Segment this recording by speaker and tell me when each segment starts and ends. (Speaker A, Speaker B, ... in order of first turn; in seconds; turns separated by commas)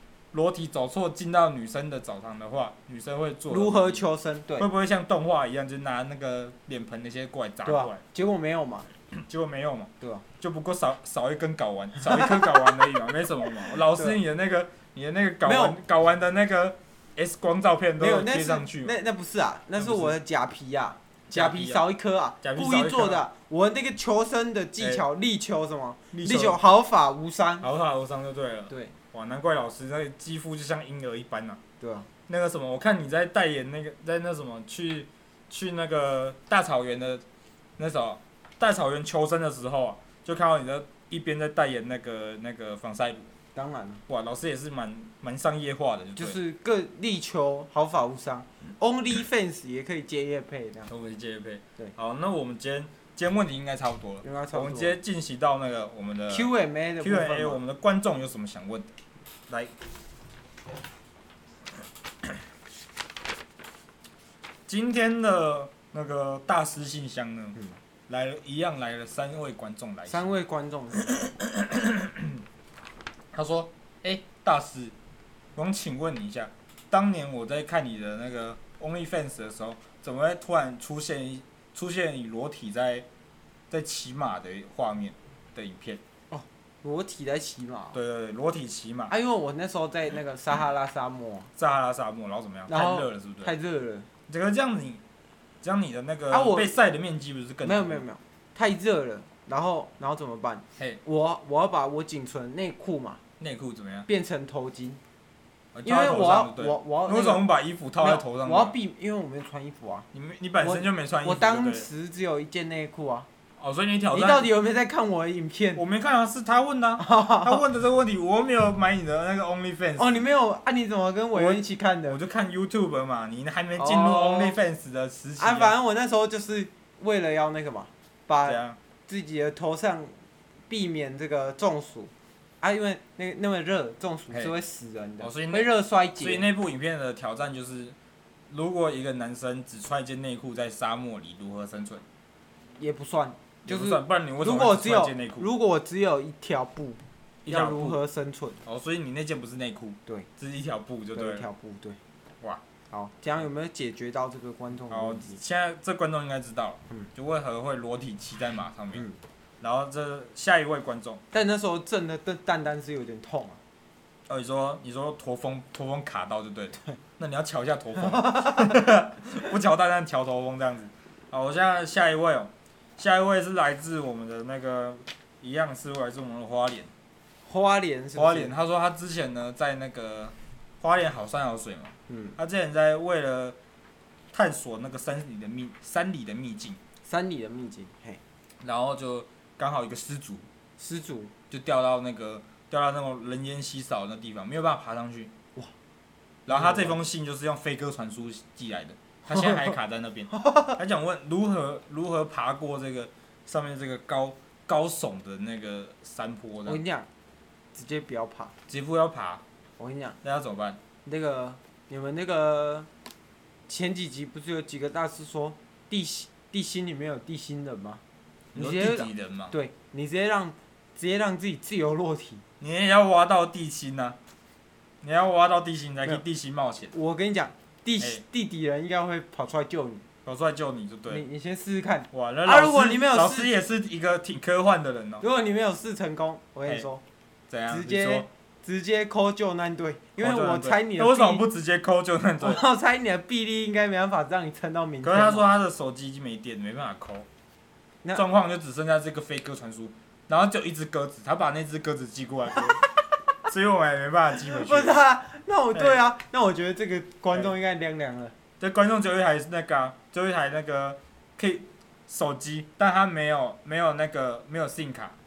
Speaker A: 0.3-4.0, Speaker B: 3.5-4.7, Speaker A: 4.6-8.0, Speaker B: 7.7-8.9, Speaker A: 9.1-19.0, Speaker B: 10.0-10.3, Speaker B: 12.0-12.5, Speaker B: 13.8-14.2, Speaker B: 15.4-15.8, Speaker B: 18.0-27.7, Speaker A: 19.8-20.2, Speaker A: 21.3-21.8, Speaker A: 22.4-23.2, Speaker A: 26.1-26.6, Speaker A: 27.6-31.6, Speaker B: 31.8-32.1, Speaker A: 32.3-37.2, Speaker A: 37.8-43.3, Speaker B: 43.5-44.0, Speaker A: 44.1-46.4, Speaker B: 46.2-50.9, Speaker A: 50.9-58.9, Speaker B: 54.2-55.0, Speaker B: 56.3-57.6, Speaker A: 64.7-67.6, Speaker A: 68.1-70.3, Speaker B: 70.1-71.3, Speaker A: 71.0-72.4, Speaker A: 73.3-74.9, Speaker A: 75.5-83.1, Speaker A: 83.7-86.0, Speaker B: 86.3-88.0, Speaker A: 87.9-89.1, Speaker B: 89.1-91.5, Speaker A: 91.6-93.5, Speaker B: 92.7-94.1, Speaker A: 94.3-95.0, Speaker A: 95.6-98.0, Speaker B: 96.3-96.8, Speaker B: 97.6-103.2, Speaker A: 103.4-104.1, Speaker B: 104.1-105.0, Speaker A: 105.8-108.8, Speaker B: 105.8-107.5, Speaker B: 108.0-110.1, Speaker A: 110.1-111.9, Speaker B: 110.6-113.3, Speaker A: 113.6-114.5, Speaker B: 114.1-115.8, Speaker A: 115.8-120.2, Speaker B: 117.0-117.6, Speaker B: 120.0-122.2, Speaker A: 121.3-125.8, Speaker B: 123.8-124.6, Speaker B: 125.4-130.1, Speaker A: 128.4-128.8, Speaker B: 130.7-136.5, Speaker A: 135.2-138.0, Speaker A: 138.5-142.0, Speaker B: 142.8-148.6, Speaker A: 143.7-145.5, Speaker A: 147.5-148.0, Speaker A: 148.7-151.5, Speaker B: 151.2-152.0, Speaker B: 152.9-155.4, Speaker A: 154.9-159.1, Speaker A: 159.6-161.2, Speaker B: 161.3-163.6, Speaker A: 164.3-176.9, Speaker B: 168.2-168.6, Speaker B: 177.5-178.5, Speaker A: 178.2-183.6, Speaker B: 182.1-182.4, Speaker A: 184.3-186.8, Speaker B: 187.1-188.2, Speaker A: 188.6-190.5, Speaker B: 190.8-191.3, Speaker A: 191.5-195.3, Speaker A: 196.5-206.8, Speaker B: 196.5-197.0, Speaker B: 199.3-199.7, Speaker B: 200.4-200.7, Speaker B: 206.7-207.1, Speaker B: 207.7-208.5, Speaker A: 208.7-209.4, Speaker B: 209.8-210.2, Speaker A: 210.2-210.8, Speaker B: 211.1-212.9, Speaker B: 213.7-218.0, Speaker A: 218.6-219.6, Speaker B: 218.6-222.4, Speaker A: 222.6-224.2, Speaker A: 225.0-226.9, Speaker B: 226.9-230.0, Speaker A: 230.2-231.2, Speaker B: 231.1-233.5, Speaker A: 232.1-235.2, Speaker B: 235.2-237.0, Speaker A: 237.5-238.3, Speaker B: 237.7-241.4, Speaker A: 240.2-242.6, Speaker B: 242.4-245.4, Speaker A: 245.0-247.3, Speaker A: 248.2-252.8, Speaker A: 253.5-255.0, Speaker B: 254.4-258.3, Speaker A: 255.7-256.0, Speaker A: 258.6-265.2